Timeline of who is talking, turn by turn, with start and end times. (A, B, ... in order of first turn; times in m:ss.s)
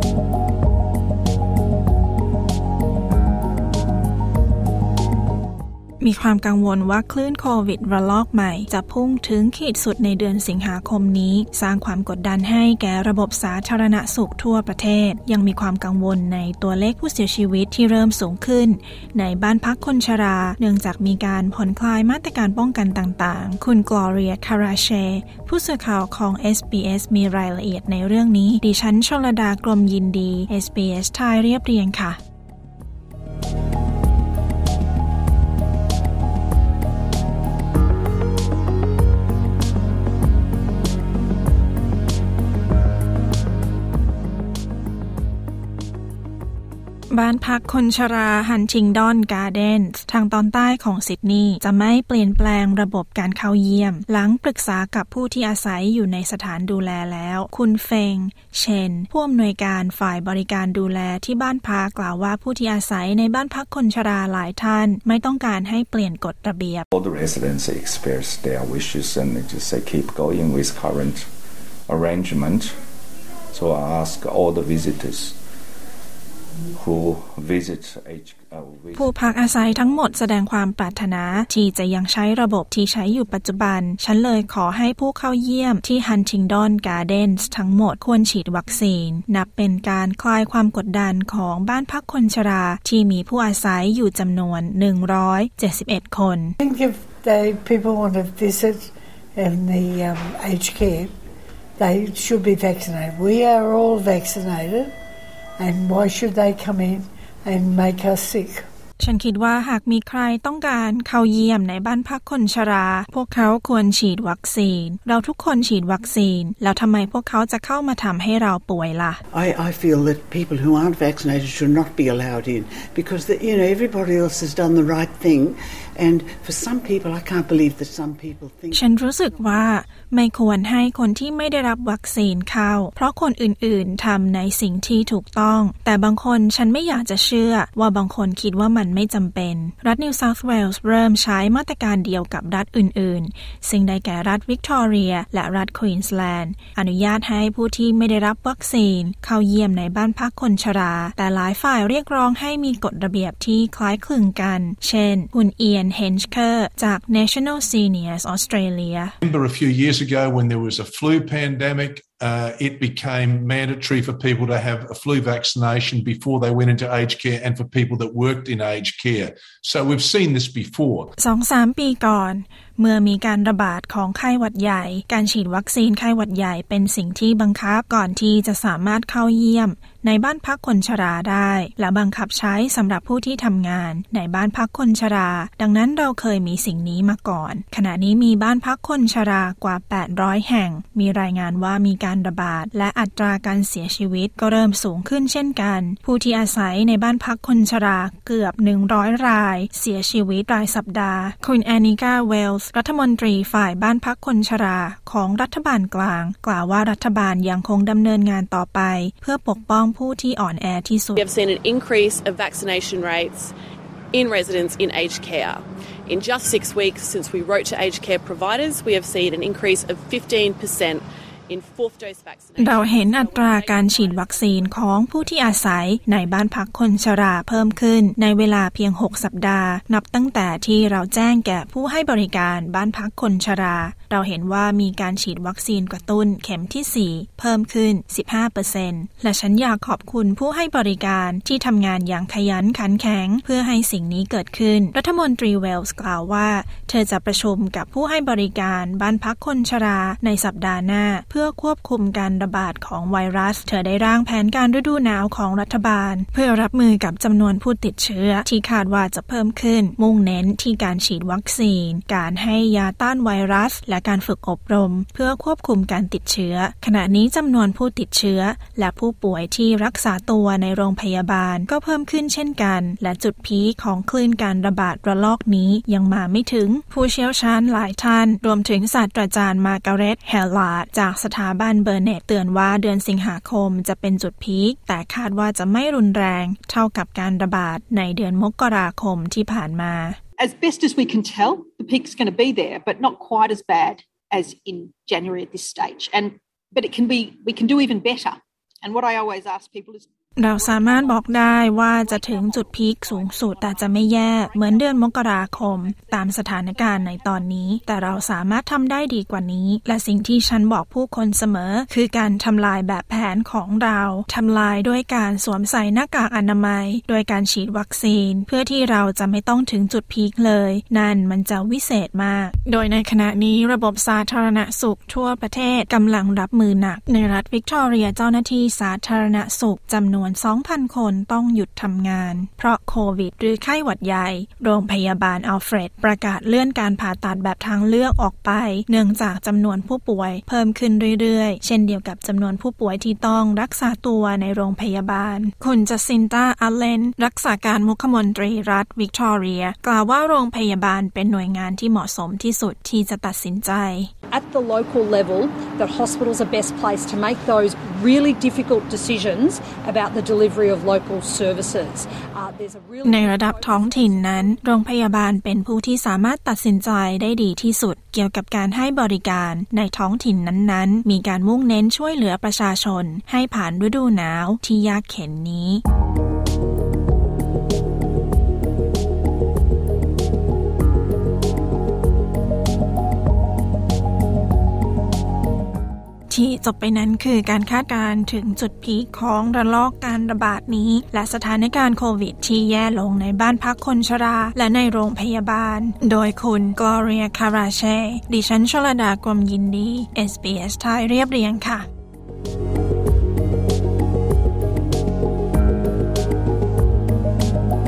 0:06.0-0:32.2 A
0:47.1-1:06.9 A
1:06.9-1:11.3 B
1:11.9-1:12.8 B
1:13.5-1:15.4 B
1:16.8-1:19.2 B
1:18.9-1:36.6 A
1:36.6-1:41.1 C
1:41.8-1:44.9 C
1:45.6-1:48.6 C
1:49.0-1:59.2 A
1:59.3-2:09.6 D
2:08.7-2:39.2 A
2:39.2-2:51.1 E
2:51.2-3:31.2 A
3:31.2-3:33.5 F
3:34.1-3:46.3 F
3:42.6-4:50.2 A
4:50.4-5:08.1 G
5:00.4-5:54.1 A
5:54.3-6:04.6 H
6:03.0-6:15.8 A
6:26.3-6:41.9 A